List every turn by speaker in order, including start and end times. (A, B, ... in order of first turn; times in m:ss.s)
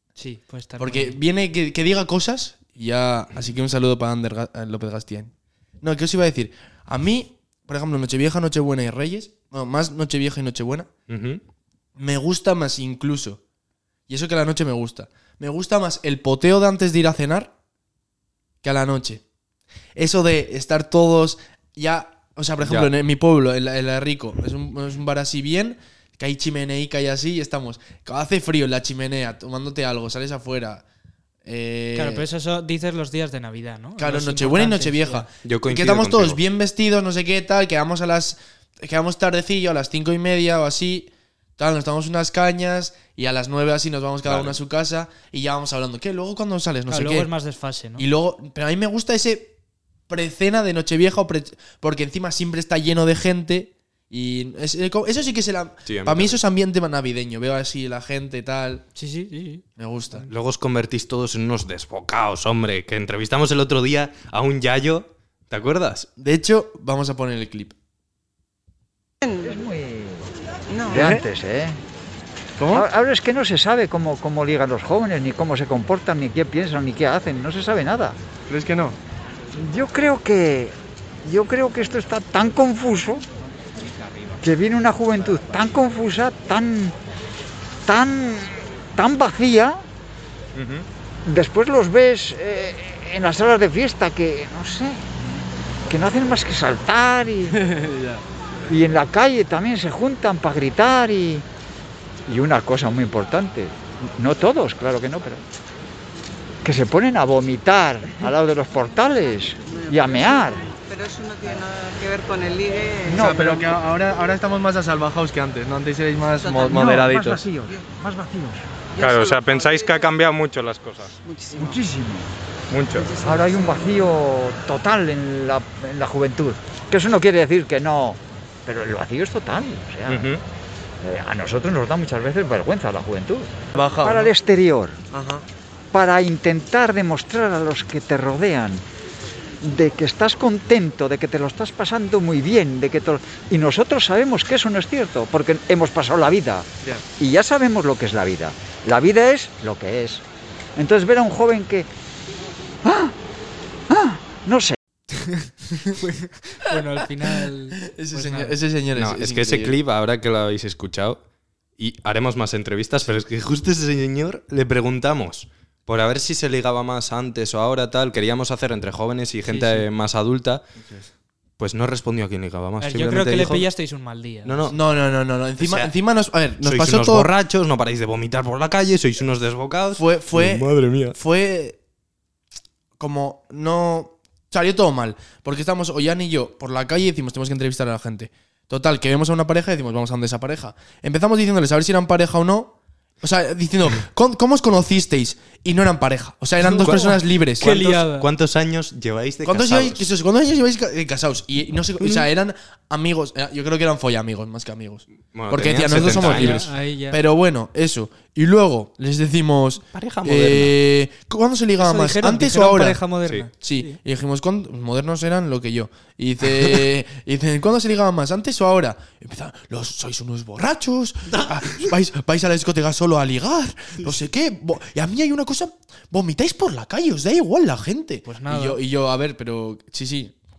0:00.2-0:01.2 A
0:00.8-0:10.9 B
0:11.1-0:11.4 C
0:12.0-0:13.4 B
0:14.1-0:17.5 B
0:18.6-0:19.2 B
0:20.0-0:30.8 B
0:22.6-0:22.9 C
0:31.4-0:32.2 B
0:32.0-0:35.3 A
0:34.0-0:47.3 B
0:35.4-0:36.4 C
0:44.2-0:44.6 C
0:46.9-0:48.1 A
0:48.0-0:49.5 B
0:50.1-0:58.8 B
0:55.9-0:56.4 C
0:59.0-0:59.6 A
0:59.8-1:00.3 B
1:00.3-1:06.1 C
1:06.2-1:07.8 B
1:09.4-1:10.3 D
1:10.8-1:11.8 D
1:10.9-1:11.2 B
1:12.6-1:12.9 B
1:12.7-1:18.2 D
1:18.5-1:19.0 B
1:19.5-1:23.2 D
1:24.4-1:27.0 D
1:27.8-1:29.8 D
1:30.5-1:30.9 C
1:31.2-1:35.1 D
1:35.9-1:37.6 D
1:37.5-1:38.2 B
1:38.7-1:41.4 D
1:42.3-1:45.4 D
1:46.6-1:50.7 D
1:50.1-1:53.5 E
1:53.1-1:57.5 B
1:53.1-1:53.6 D
1:56.5-1:58.7 D
1:59.0-2:00.0 E
1:59.0-2:01.2 C
2:01.3-2:01.8 E
2:01.5-2:02.3 D
2:02.7-2:03.2 C
2:03.0-2:03.5 E
2:03.2-2:10.3 D
2:10.1-2:10.4 C
2:11.0-2:15.0 D
2:13.7-2:14.3 B
2:15.1-2:15.4 B
2:15.9-2:18.8 D
2:19.6-2:30.2 D
2:30.8-2:31.9 D
2:32.8-2:33.2 D
2:33.9-2:34.8 D
2:35.2-2:38.6 A
2:37.8-2:39.8 B
2:39.0-2:41.2 C
2:41.8-2:50.6 C
2:49.4-2:49.9 A
2:51.6-2:53.7 C
2:52.8-2:54.8 A
2:54.4-2:54.8 C
2:54.7-2:57.3 B
2:55.6-2:55.9 C
2:56.6-3:01.2 C
3:00.0-3:01.8 B
3:03.0-3:17.8 B
3:16.6-3:18.3 A
3:16.7-3:20.1 C
3:19.4-3:33.0 B
3:22.0-3:22.3 C
3:25.3-3:26.7 C
3:25.9-3:27.2 A
3:29.9-3:30.8 C
3:31.8-3:34.0 A
3:33.6-3:50.4 B
3:36.6-3:36.9 C
3:41.3-3:41.9 C
3:48.3-3:48.8 A